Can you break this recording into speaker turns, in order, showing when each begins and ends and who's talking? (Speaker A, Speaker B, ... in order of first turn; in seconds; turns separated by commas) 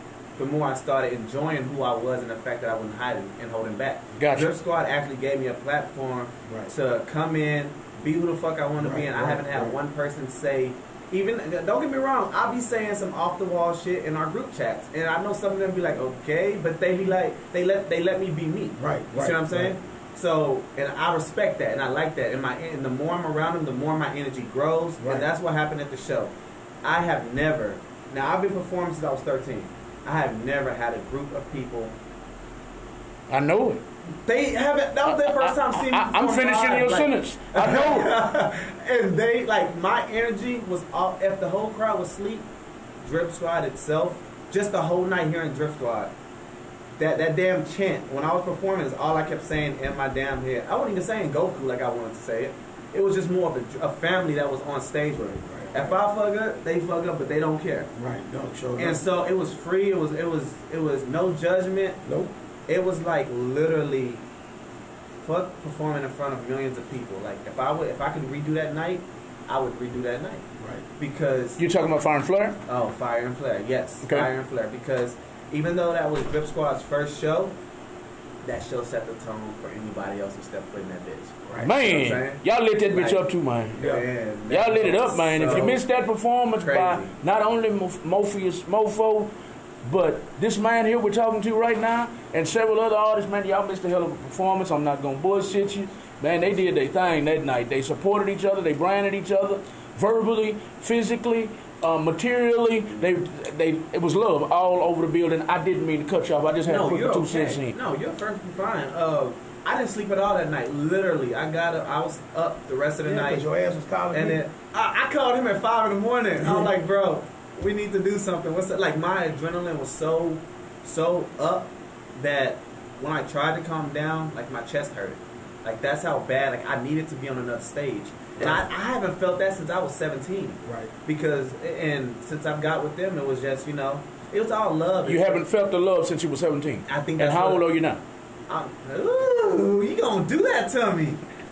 Speaker A: 0.4-32.0, Speaker B: 4.2-4.5, Speaker C: 6.5-6.7, Speaker C: 8.8-9.8, Speaker C: 18.8-19.7, Speaker C: 25.0-25.3, Speaker B: 33.3-33.8, Speaker A: 34.2-42.4, Speaker B: 35.0-38.1, Speaker A: 43.0-46.1, Speaker A: 47.0-57.9, Speaker C: 55.4-56.0, Speaker C: 58.0-59.0, Speaker A: 58.8-62.0, Speaker C: 62.0-62.3, Speaker A: 62.7-64.2, Speaker A: 65.2-71.6, Speaker B: 71.6-72.6, Speaker A: 72.7-77.5, Speaker B: 74.0-74.3, Speaker A: 78.4-85.8, Speaker C: 81.5-81.7, Speaker B: 81.6-83.8, Speaker C: 83.8-84.0, Speaker B: 84.5-89.3, Speaker A: 86.6-87.1, Speaker B: 89.8-107.8, Speaker A: 106.7-113.4, Speaker C: 113.0-114.4, Speaker A: 114.1-135.4, Speaker C: 116.4-116.7, Speaker C: 128.4-128.6, Speaker C: 130.6-130.9, Speaker B: 135.1-138.0, Speaker A: 136.9-137.6, Speaker A: 138.5-141.2